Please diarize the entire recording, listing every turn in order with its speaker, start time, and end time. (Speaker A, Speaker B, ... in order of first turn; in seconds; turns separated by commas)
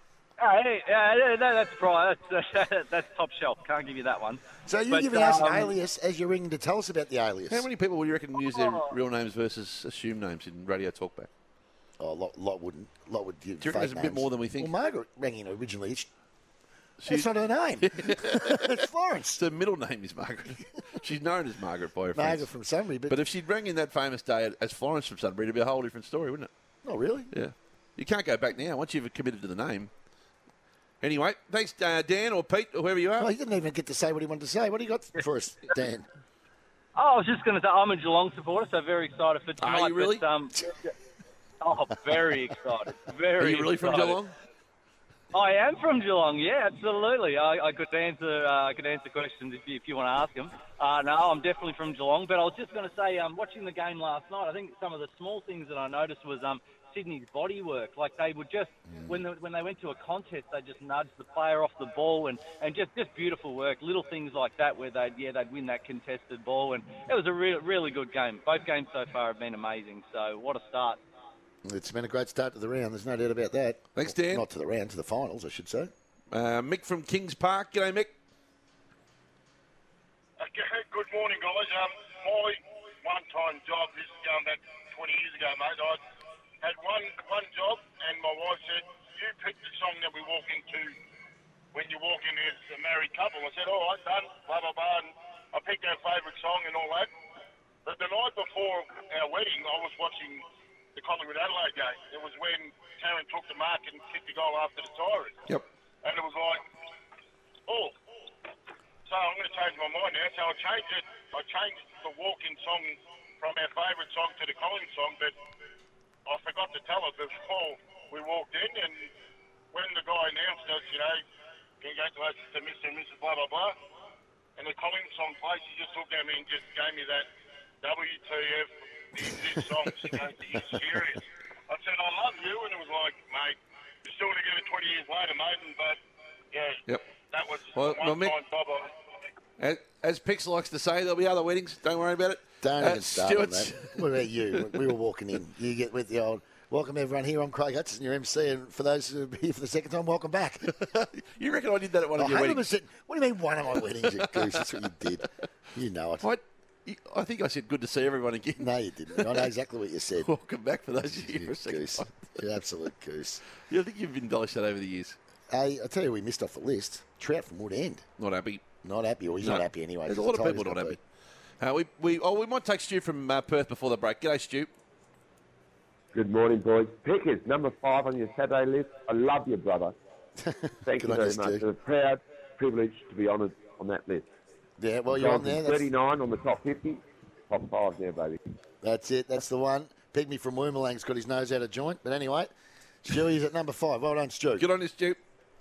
Speaker A: 0.4-5.7, Speaker B: 4.7-7.7, Speaker C: 7.5-11.3, Speaker A: 8.6-8.9, Speaker B: 12.0-16.1, Speaker C: 13.6-14.7, Speaker C: 17.0-17.3, Speaker B: 17.1-19.4, Speaker C: 17.8-18.7, Speaker C: 19.3-22.5, Speaker B: 22.1-23.2, Speaker C: 23.1-26.5, Speaker B: 26.8-27.3, Speaker C: 27.3-29.9, Speaker C: 31.0-33.3, Speaker B: 33.2-36.0, Speaker A: 37.0-40.6, Speaker C: 39.6-40.2, Speaker A: 41.6-44.2, Speaker C: 43.4-44.3, Speaker A: 45.3-71.0, Speaker B: 58.9-59.2, Speaker B: 71.6-75.9, Speaker C: 73.9-74.4, Speaker C: 76.3-78.1, Speaker D: 80.4-86.0, Speaker D: 86.6-90.9, Speaker D: 91.7-97.1, Speaker D: 97.8-100.4, Speaker D: 100.9-105.4, Speaker D: 106.0-106.6, Speaker D: 107.7-107.9, Speaker D: 109.0-115.3, Speaker D: 116.2-119.1, Speaker D: 119.7-121.2, Speaker D: 121.8-123.8, Speaker D: 124.6-127.3, Speaker D: 127.8-136.0, Speaker D: 136.5-138.9, Speaker C: 137.7-138.4, Speaker C: 139.6-144.0, Speaker B: 142.6-150.7, Speaker C: 144.5-144.8, Speaker C: 150.8-152.6, Speaker B: 152.2-156.3, Speaker C: 154.1-154.6, Speaker C: 156.2-159.4, Speaker B: 158.6-160.3, Speaker C: 160.2-162.1, Speaker B: 161.2-163.4, Speaker C: 163.7-165.2, Speaker B: 165.5-168.0, Speaker C: 168.2-168.6, Speaker B: 168.8-171.0, Speaker C: 169.4-171.0, Speaker C: 171.6-174.7, Speaker E: 176.1-179.9, Speaker B: 180.4-181.6, Speaker E: 180.8-184.3, Speaker B: 184.8-185.8, Speaker E: 185.1-188.4, Speaker B: 188.8-192.5, Speaker B: 193.0-194.7, Speaker C: 194.6-195.2